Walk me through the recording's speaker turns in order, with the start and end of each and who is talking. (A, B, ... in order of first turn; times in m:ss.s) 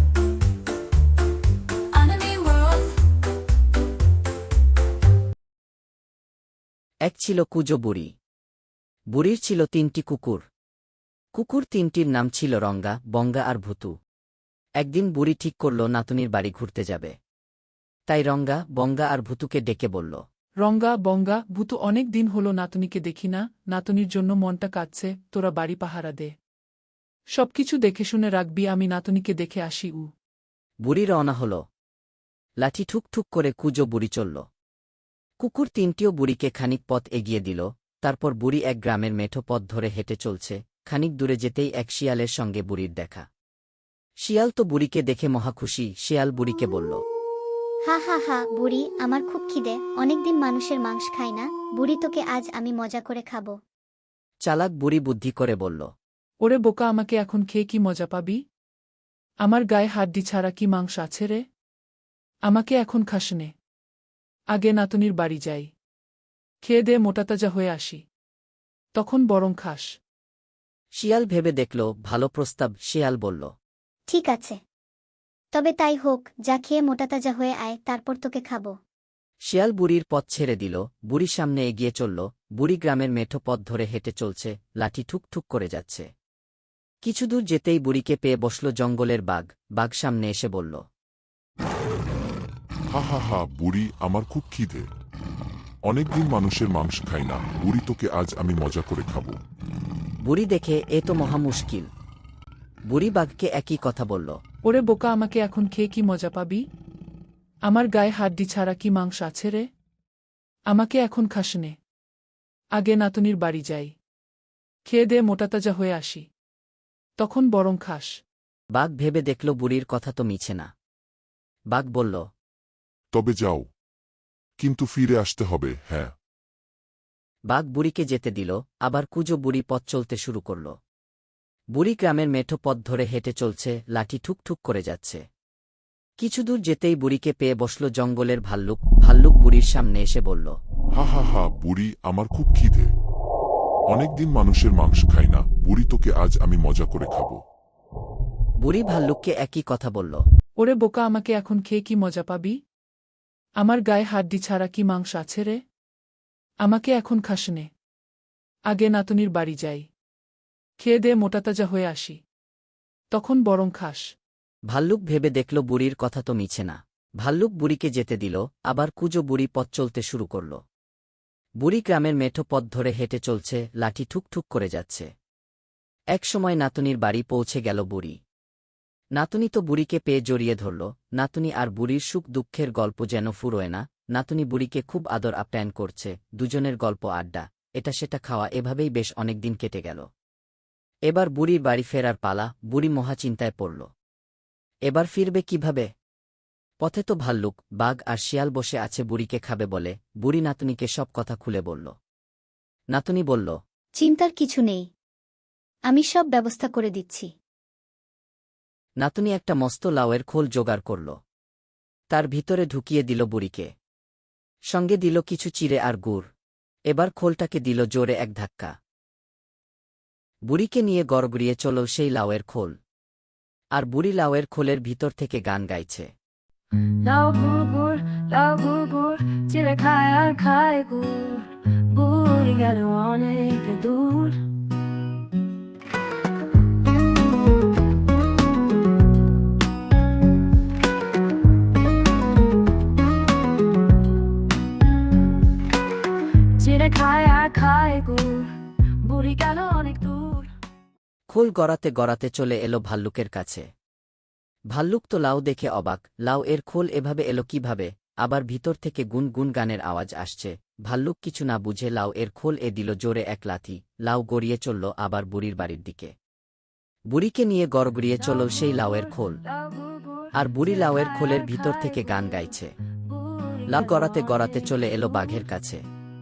0:01.9-0:02.9 A
0:07.0-0:08.1 B
0:09.1-0:10.4 B
0:11.3-0:13.9 B
0:14.8-0:17.2 B
0:18.1-0:20.2 B
0:20.6-0:26.3 C
0:27.3-0:30.1 C
0:30.8-0:31.6 B
0:32.6-0:34.4 B
0:35.4-0:43.3 B
0:44.2-0:47.0 B
0:47.9-0:53.6 D
0:54.4-0:55.9 B
0:56.4-0:58.4 C
0:59.4-1:01.4 C
1:02.5-1:03.5 C
1:04.5-1:05.7 C
1:06.6-1:08.0 C
1:09.0-1:09.9 C
1:11.0-1:13.5 B
1:14.1-1:14.6 D
1:15.5-1:18.7 D
1:19.5-1:26.1 B
1:27.0-1:30.8 B
1:32.9-1:34.8 E
1:35.9-1:39.4 E
1:40.2-1:41.9 B
1:42.9-1:44.4 B
1:44.6-1:46.6 C
1:47.7-1:49.6 C
1:50.7-1:51.8 C
1:52.8-1:53.9 C
1:54.9-1:56.2 C
1:57.2-1:58.1 C
1:58.7-2:00.7 B
2:01.7-2:02.2 B
2:03.1-2:03.7 E
2:04.6-2:06.1 E
2:07.5-2:10.7 B
2:11.7-2:15.2 B
2:16.2-2:20.5 B
2:21.0-2:22.9 E
2:23.9-2:27.4 E
2:28.6-2:30.2 B
2:30.6-2:32.6 C
2:33.6-2:35.6 C
2:36.6-2:37.7 C
2:38.7-2:39.8 C
2:40.8-2:42.2 C
2:43.1-2:44.0 C
2:44.7-2:50.6 B
2:51.6-2:55.1 B
2:56.1-2:58.2 B
2:59.2-3:10.0 B
3:11.1-3:13.9 B
3:14.9-3:15.9 B
3:16.8-3:21.9 B
3:22.9-3:23.6 B
3:24.0-3:24.8 D
3:25.9-3:27.3 D
3:29.0-3:31.1 B
3:32.1-3:33.7 B
3:34.7-3:36.3 B
3:36.9-3:38.7 B
3:40.5-3:42.8 B
3:43.7-3:46.1 B
3:47.0-3:54.4 A
4:06.6-4:10.5 A
4:11.3-4:13.7 B
4:14.7-4:26.1 B
4:27.1-4:29.4 B
4:28.3-4:32.3 A
4:30.3-4:32.7 B
4:33.0-4:34.9 A
4:33.7-4:35.8 B